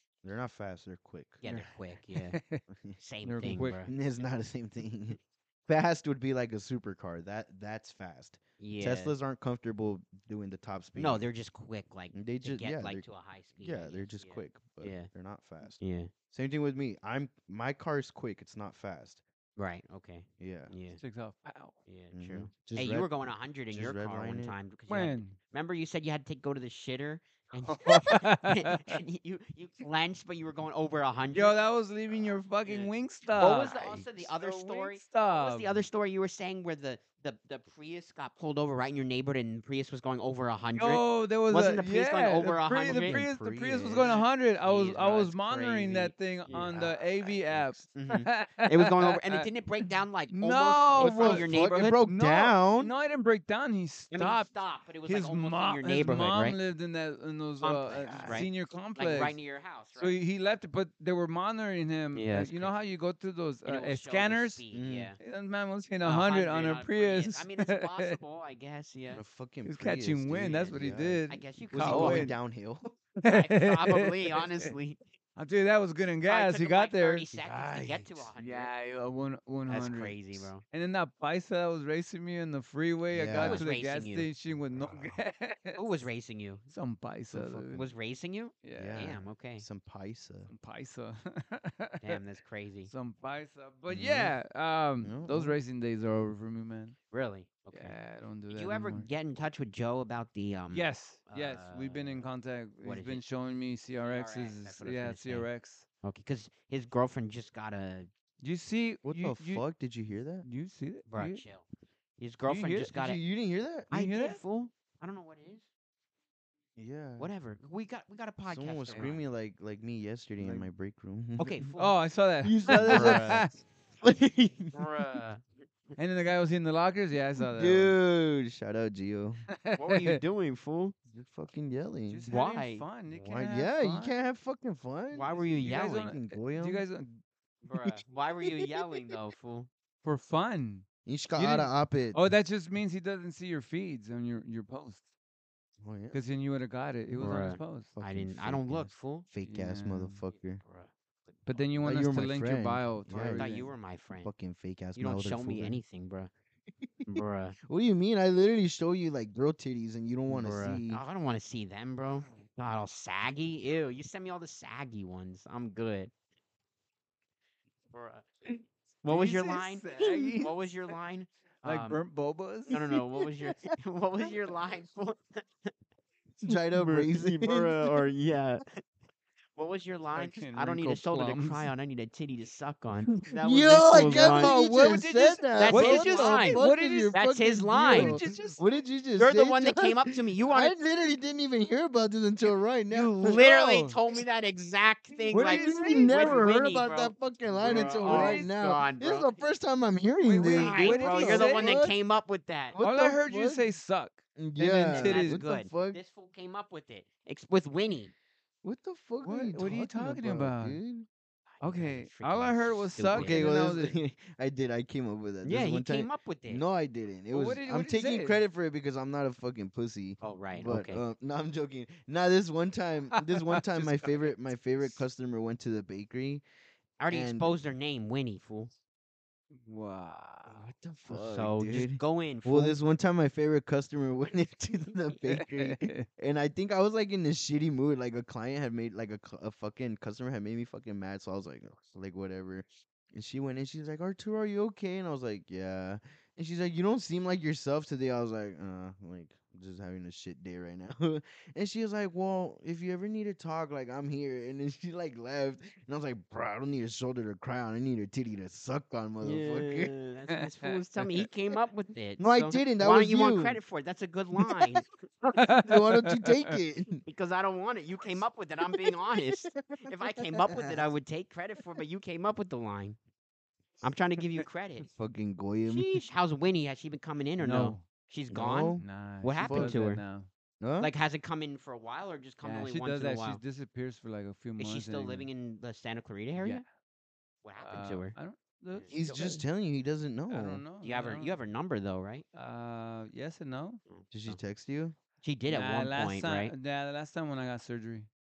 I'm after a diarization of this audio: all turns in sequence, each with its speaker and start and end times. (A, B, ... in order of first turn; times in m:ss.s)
0:00.2-0:01.4 A
0:01.4-0:02.4 B
0:01.4-0:02.6 C
0:02.7-0:03.0 A
0:03.0-0:03.9 B
0:03.2-0:03.8 C
0:03.5-0:11.3 A
0:08.6-0:09.2 B
0:11.0-0:15.1 B
0:12.1-0:13.1 A
0:13.6-0:19.2 A
0:15.8-0:16.1 B
0:19.6-0:21.0 B
0:20.4-0:20.7 A
0:21.0-0:21.8 C
0:21.9-0:31.6 B
0:22.1-0:23.1 A
0:23.7-0:24.6 A
0:24.9-0:25.4 C
0:27.7-0:29.0 C
0:31.3-0:35.8 C
0:32.6-0:43.2 B
0:40.8-0:51.5 C
0:42.8-0:44.2 A
0:44.0-0:52.0 B
0:46.6-0:46.9 A
0:51.0-0:52.9 A
0:52.0-0:54.5 C
0:54.1-0:56.6 B
0:55.0-0:59.4 C
0:57.6-1:00.2 B
0:58.1-0:58.5 A
1:00.0-1:04.6 C
1:02.2-1:02.8 B
1:03.6-1:05.2 B
1:04.7-1:05.1 A
1:05.2-1:08.2 C
1:06.0-1:09.2 B
1:09.1-1:11.2 A
1:09.7-1:12.4 C
1:11.3-1:12.3 B
1:11.7-1:13.0 A
1:13.2-1:14.7 C
1:13.2-1:15.0 B
1:15.4-1:17.3 C
1:16.3-1:18.7 B
1:17.3-1:18.3 A
1:18.4-1:25.8 C
1:19.7-1:20.6 B
1:23.1-1:23.7 A
1:23.4-1:24.3 B
1:24.7-1:25.2 A
1:25.8-1:26.7 B
1:26.7-1:27.9 C
1:27.3-1:27.9 A
1:27.8-1:29.6 B
1:28.6-1:29.1 C
1:28.8-1:30.5 A
1:30.5-1:32.2 C
1:32.0-1:32.9 B
1:32.9-1:37.0 C
1:33.9-1:34.4 A
1:35.0-1:35.6 A
1:37.1-1:38.0 B
1:37.7-1:39.1 C
1:38.5-1:42.3 B
1:40.7-1:45.9 C
1:42.8-1:43.2 B
1:44.0-1:45.5 B
1:46.0-1:48.1 B
1:48.4-1:49.6 C
1:49.0-1:50.5 A
1:50.4-1:51.4 C
1:51.1-1:51.7 B
1:52.2-1:53.2 B
1:52.5-1:52.9 C
1:52.9-1:53.9 A
1:53.9-1:54.4 C
1:53.9-1:55.6 B
1:56.8-1:57.3 A
1:57.2-1:59.3 B
1:58.5-2:01.7 A
2:00.4-2:00.7 C
2:01.4-2:02.0 B
2:01.8-2:03.6 C
2:02.4-2:03.5 A
2:02.7-2:03.4 B
2:04.0-2:04.8 A
2:04.7-2:05.4 B
2:06.0-2:07.9 C
2:07.4-2:09.5 A
2:09.5-2:10.2 C
2:09.8-2:11.0 B
2:11.1-2:12.2 A
2:12.1-2:14.2 C
2:12.3-2:12.9 B
2:13.1-2:16.9 A
2:15.1-2:16.1 B
2:15.6-2:17.2 C
2:17.6-2:19.7 B
2:20.0-2:25.0 C
2:21.1-2:22.3 A
2:25.8-2:26.2 A
2:26.1-2:28.0 C
2:27.2-2:29.3 B
2:28.0-2:30.6 A
2:29.4-2:30.2 C
2:30.6-2:31.6 B
2:31.5-2:33.7 C
2:31.8-2:33.6 A
2:33.4-2:34.3 B
2:34.2-2:35.8 A
2:35.0-2:36.3 B
2:36.8-2:41.0 A
2:37.0-2:37.6 B
2:40.3-2:46.1 B
2:47.9-2:48.3 B
2:49.0-2:52.0 B
2:49.1-2:50.6 C
2:51.6-2:53.0 C
2:52.7-2:55.7 B
2:56.4-2:58.0 A
2:56.8-2:58.8 B
2:59.6-3:04.6 B
3:00.2-3:01.7 C
3:03.4-3:13.9 A
3:03.9-3:07.2 C
3:05.5-3:08.5 B
3:07.8-3:08.6 C
3:09.2-3:10.7 B
3:12.9-3:19.4 B
3:15.2-3:22.0 A
3:15.3-3:16.4 C
3:17.6-3:18.5 C
3:20.2-3:22.8 B
3:20.3-3:21.8 C
3:22.7-3:23.6 A
3:22.8-3:24.2 C
3:24.4-3:26.0 A
3:24.6-3:28.1 B
3:24.9-3:25.4 C
3:28.6-3:31.1 A
3:29.2-3:30.8 C
3:31.6-3:33.5 B
3:31.6-3:34.0 C
3:33.1-3:46.4 A
3:35.4-3:36.6 B
3:37.3-3:38.4 C
3:40.2-3:41.0 B
3:43.2-3:45.0 C
3:47.0-3:48.7 B
3:47.1-3:47.5 A
3:49.6-3:50.7 C
3:50.5-4:19.9 A
3:51.1-3:52.8 B
3:55.3-3:56.1 C
4:19.2-4:24.9 B
4:20.4-4:21.3 C
4:22.2-4:23.6 A
4:24.5-4:27.0 A
4:25.4-4:26.6 C
4:27.1-4:33.0 B
4:28.8-4:30.8 A
4:33.8-4:34.9 B
4:34.9-4:35.9 A
4:35.6-4:40.0 B
4:37.4-4:37.8 C
4:38.3-4:38.8 A
4:38.7-4:40.3 C
4:39.4-4:39.7 A
4:40.6-4:40.9 A
4:40.8-4:43.4 B
4:42.4-4:45.3 C
4:44.6-4:46.6 B
4:46.4-4:46.7 C
4:47.4-4:48.2 B
4:47.6-4:49.4 C
4:48.9-4:50.6 A
4:50.3-4:51.4 C
4:50.8-4:52.2 B
4:52.3-4:53.8 C
4:53.9-4:54.4 B
4:54.1-4:55.0 A
4:55.2-4:56.5 B
4:55.5-4:58.1 C